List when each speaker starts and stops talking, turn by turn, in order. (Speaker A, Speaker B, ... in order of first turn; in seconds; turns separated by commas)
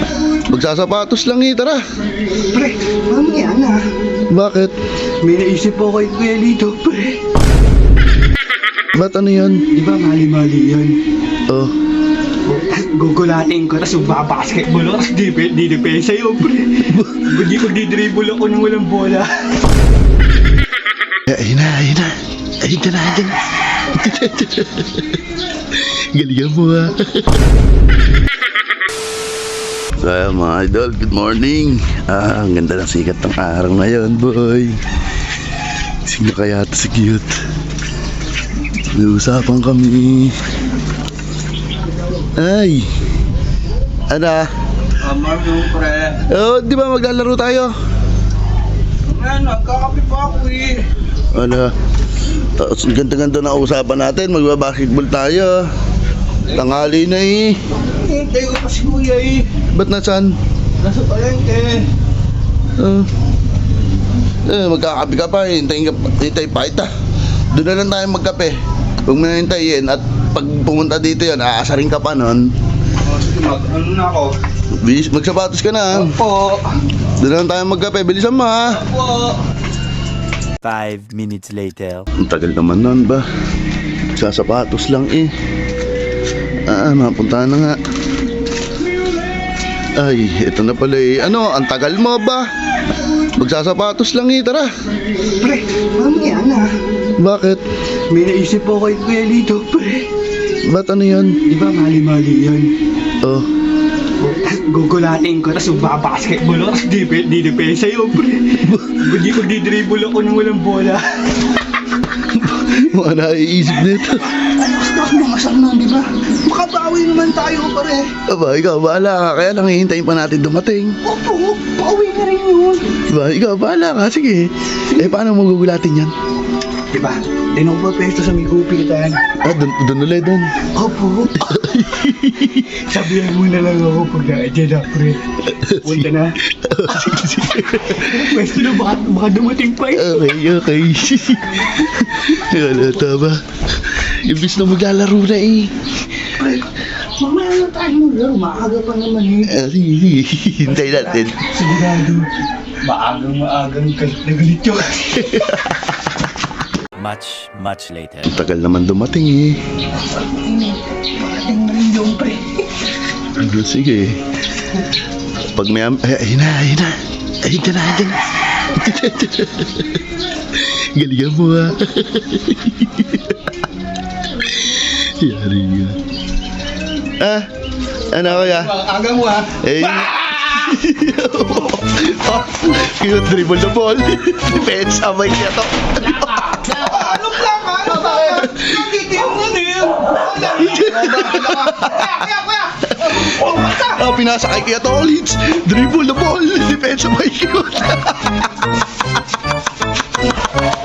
Speaker A: 0.5-1.8, Speaker B: 2.5-3.8, Speaker A: 4.3-4.8, Speaker B: 5.2-7.2, Speaker A: 9.0-9.6, Speaker B: 9.7-11.0, Speaker A: 11.5-11.7, Speaker B: 12.4-19.4, Speaker A: 16.9-17.2, Speaker A: 21.3-25.2, Speaker A: 25.8-27.4, Speaker A: 30.0-34.8, Speaker A: 36.0-37.4, Speaker A: 38.9-40.4, Speaker A: 42.4-42.9, Speaker A: 44.1-44.5, Speaker B: 45.0-46.2, Speaker A: 46.3-47.7, Speaker B: 49.1-50.9, Speaker A: 51.3-51.7, Speaker A: 52.4-55.7, Speaker A: 56.5-57.6, Speaker B: 57.8-59.5, Speaker A: 59.7-60.4, Speaker B: 60.8-61.9, Speaker A: 62.8-63.1, Speaker A: 64.5-66.9, Speaker A: 67.5-72.5, Speaker B: 73.0-74.4, Speaker A: 74.7-76.2, Speaker B: 75.9-76.8, Speaker A: 77.2-78.9, Speaker B: 78.8-79.4, Speaker C: 80.6-82.1, Speaker A: 82.2-83.2, Speaker A: 84.1-85.3, Speaker A: 86.7-87.8, Speaker A: 90.0-92.5, Speaker A: 93.4-94.7, Speaker B: 95.4-96.7, Speaker A: 97.2-97.6, Speaker B: 98.1-100.1, Speaker A: 100.6-101.4, Speaker B: 101.5-102.7, Speaker A: 103.2-103.5, Speaker B: 104.2-111.5, Speaker A: 108.6-109.0, Speaker A: 112.3-114.3, Speaker B: 113.9-118.1, Speaker A: 118.3-121.0, Speaker B: 121.0-122.9, Speaker A: 123.1-126.1, Speaker B: 126.9-129.2, Speaker A: 129.4-130.6, Speaker B: 130.7-131.8, Speaker A: 131.4-132.7, Speaker B: 132.7-135.2, Speaker A: 135.5-138.5, Speaker B: 135.8-136.4, Speaker B: 136.9-137.2, Speaker B: 137.9-140.2, Speaker A: 139.9-145.7, Speaker B: 146.3-149.5, Speaker A: 149.5-151.5, Speaker B: 150.8-152.3, Speaker B: 152.8-155.3, Speaker A: 155.1-155.9, Speaker C: 157.0-158.3, Speaker A: 158.3-159.6, Speaker B: 160.1-162.7, Speaker A: 163.4-164.2, Speaker A: 165.5-170.0, Speaker A: 170.6-173.3, Speaker A: 174.6-176.0, Speaker A: 177.1-177.5, Speaker A: 178.1-178.8, Speaker B: 178.4-180.6, Speaker A: 179.5-187.2, Speaker B: 186.2-194.0, Speaker A: 187.8-188.9, Speaker A: 190.5-192.2, Speaker A: 192.9-198.5